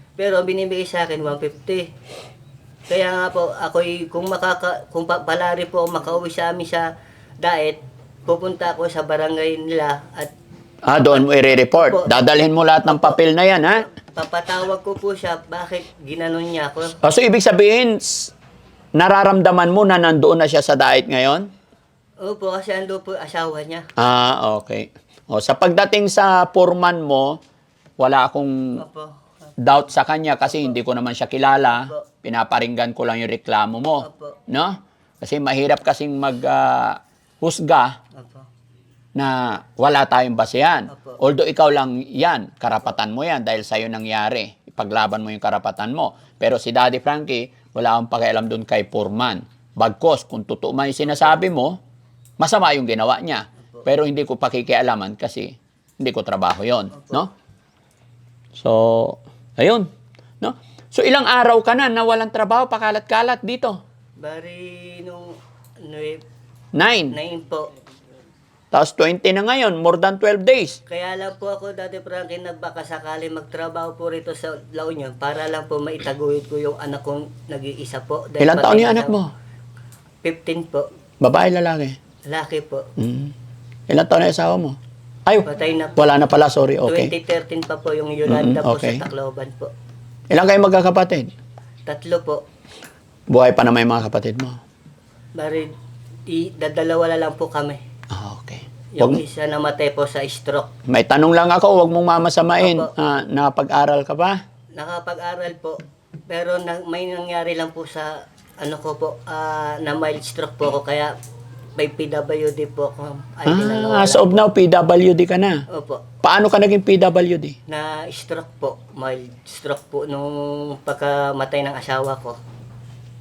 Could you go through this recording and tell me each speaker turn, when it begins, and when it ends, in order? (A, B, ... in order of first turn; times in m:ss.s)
0:00.2-0:01.9 A
0:02.9-0:10.3 A
0:10.8-0:13.8 B
0:11.1-0:12.2 A
0:12.9-0:13.2 A
0:13.9-0:16.9 A
0:17.0-0:18.3 B
0:18.9-0:21.5 B
0:22.2-0:23.9 A
0:24.0-0:27.4 B
0:28.0-0:28.8 B
0:28.8-0:29.2 A
0:29.6-0:38.0 B
0:31.8-0:32.0 A
0:34.0-0:34.4 A
0:38.1-0:38.5 A
0:39.1-0:51.8 B
0:40.9-0:41.2 A
0:52.4-0:57.3 B
0:56.9-0:57.2 A
0:58.5-1:03.8 B
1:04.2-1:06.2 A
1:06.7-1:07.2 B
1:07.1-1:07.7 A
1:08.7-1:10.8 B
1:10.9-1:19.2 A
1:18.4-1:19.3 B
1:20.2-1:20.9 A
1:21.2-1:22.0 B
1:22.2-1:22.9 A
1:23.0-1:23.3 B
1:23.9-1:27.1 B
1:25.4-1:26.1 A
1:26.8-1:29.7 A
1:28.3-1:29.0 B
1:30.3-1:31.3 B
1:31.8-1:32.4 A
1:33.3-1:34.6 B
1:35.4-1:35.7 A
1:36.3-1:37.8 A
1:38.1-1:39.2 B
1:38.9-1:40.7 A
1:40.9-1:44.4 B
1:42.6-1:42.9 A
1:44.7-1:51.1 A
1:51.8-1:54.4 A
1:53.4-1:55.6 B
1:55.7-1:56.0 A
1:56.2-1:57.6 B
1:57.7-2:02.4 A